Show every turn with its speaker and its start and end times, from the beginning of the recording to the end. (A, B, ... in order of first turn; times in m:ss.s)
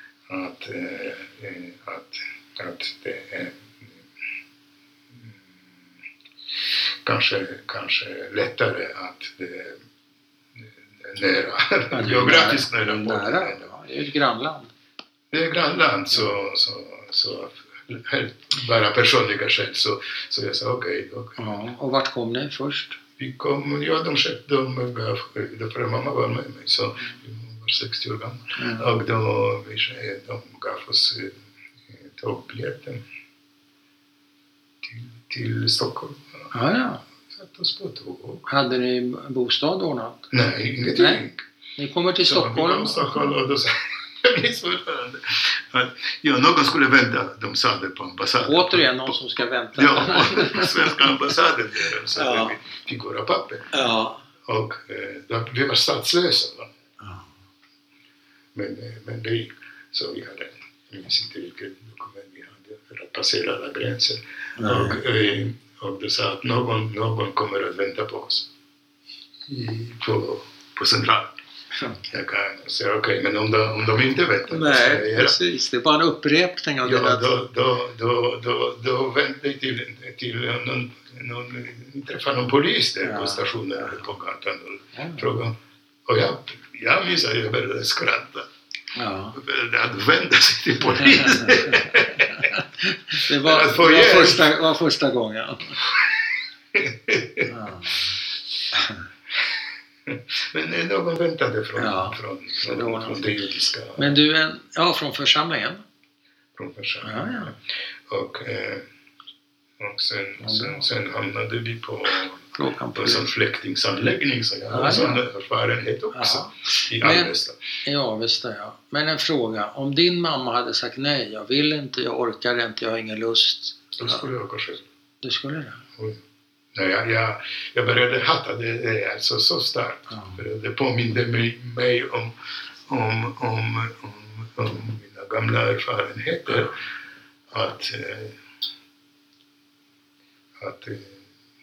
0:00.3-0:03.9 A
0:07.0-0:09.8 A
0:10.6-0:13.7 A
0:11.9-0:14.7 B
0:15.3-0:21.6 A
0:21.4-0:23.0 B
0:23.2-0:31.4 A
0:28.6-0:28.9 B
0:31.9-0:33.0 A
0:34.8-0:36.5 A
0:36.5-0:37.0 B
0:37.3-0:38.5 A
0:38.5-0:40.3 B
0:40.3-0:41.4 A
0:40.9-0:41.2 B
0:41.8-0:43.4 B
0:42.2-0:49.2 A
0:48.4-0:51.1 B
0:49.7-0:53.7 A
0:52.1-0:52.6 B
0:53.7-0:54.2 B
0:54.4-0:56.7 A
0:57.0-0:57.3 B
0:58.5-1:08.5 A
1:04.6-1:05.0 B
1:09.4-1:11.4 A
1:11.7-1:12.2 B
1:12.1-1:15.3 A
1:14.5-1:17.3 B
1:16.8-1:25.5 A
1:23.0-1:24.1 B
1:24.9-1:25.3 B
1:26.0-1:28.5 A
1:28.9-1:29.4 B
1:29.3-1:32.5 A
1:31.0-1:35.8 B
1:33.2-1:34.5 A
1:36.7-1:37.5 A
1:37.4-1:38.2 B
1:38.7-1:39.0 B
1:40.0-1:44.2 A
1:41.8-1:43.3 B
1:44.0-1:45.8 B
1:46.6-1:48.9 A
1:47.0-1:47.5 B
1:49.8-1:57.6 A
1:50.4-1:50.9 B
1:52.5-1:53.3 B
1:54.7-1:55.2 B
1:56.1-1:57.3 B
1:57.8-2:04.2 B
2:03.9-2:04.8 A
2:05.2-2:05.8 B
2:06.0-2:06.2 A
2:06.7-2:12.3 A
2:10.1-2:10.4 B
2:12.9-2:16.8 A
2:17.5-2:18.4 A
2:20.6-2:21.2 A